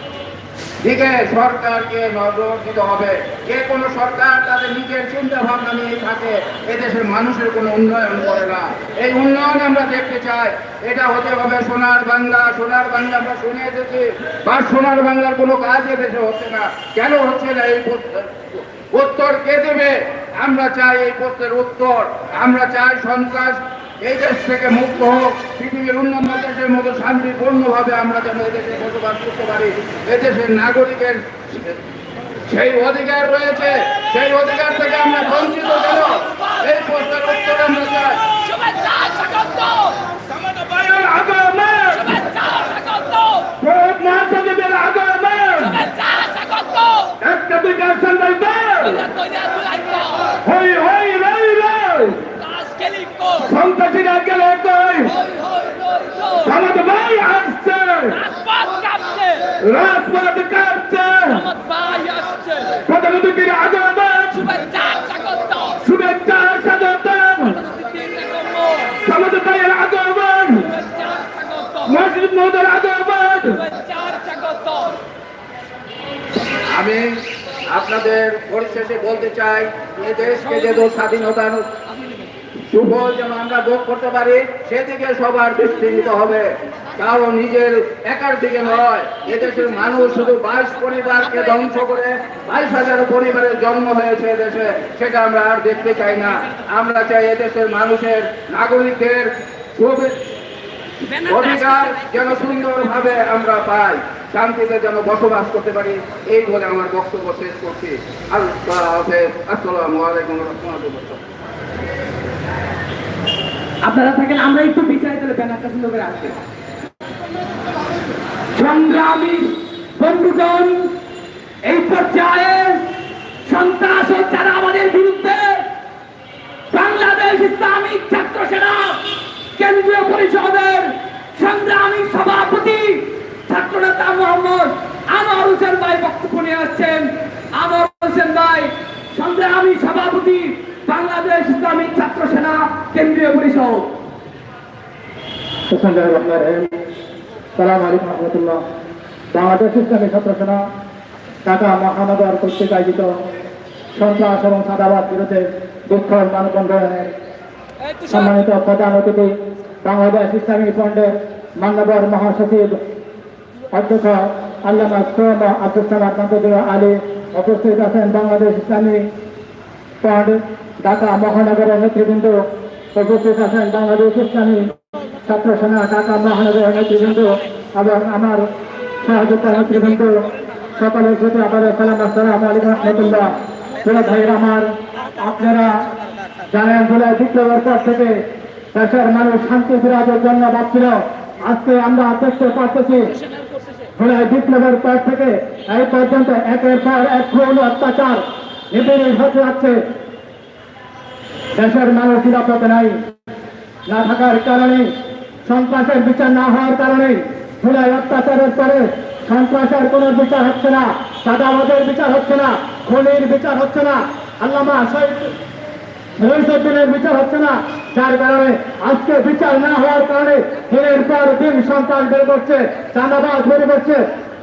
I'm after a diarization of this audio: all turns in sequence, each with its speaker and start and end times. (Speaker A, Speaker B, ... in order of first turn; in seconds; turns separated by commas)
Speaker A: 0.8-31.8, Speaker A: 32.5-38.2, Speaker B: 38.5-39.9, Speaker C: 40.3-42.2, Speaker B: 42.2-43.4, Speaker C: 43.5-45.9, Speaker B: 45.9-46.8, Speaker C: 47.2-49.1, Speaker B: 49.2-50.0, Speaker C: 50.4-52.2, Speaker C: 53.4-55.2, Speaker C: 56.4-58.3, Speaker B: 58.3-59.2, Speaker C: 59.6-61.5, Speaker B: 61.6-62.3, Speaker C: 62.7-64.7, Speaker B: 64.9-65.6, Speaker C: 65.8-67.7, Speaker C: 69.0-70.7, Speaker C: 71.8-73.7, Speaker B: 73.8-74.7, Speaker A: 76.7-77.0, Speaker A: 77.7-81.6, Speaker A: 82.7-100.1, Speaker B: 101.1-102.8, Speaker A: 101.3-111.2, Speaker B: 113.8-116.3, Speaker B: 118.5-120.9, Speaker B: 121.6-122.8, Speaker B: 123.4-125.6, Speaker B: 126.7-129.0, Speaker B: 129.6-143.9, Speaker D: 145.7-146.7, Speaker D: 147.6-148.6, Speaker D: 149.3-150.6, Speaker D: 151.4-153.2, Speaker D: 153.9-157.1, Speaker D: 158.1-162.8, Speaker D: 163.7-169.1, Speaker D: 170.0-172.4, Speaker D: 172.9-174.7, Speaker D: 175.2-178.5, Speaker D: 179.0-180.2, Speaker D: 180.8-185.8, Speaker D: 186.5-193.1, Speaker D: 194.0-199.8, Speaker D: 201.5-203.0, Speaker D: 203.9-204.9, Speaker D: 205.4-215.3, Speaker D: 216.2-224.0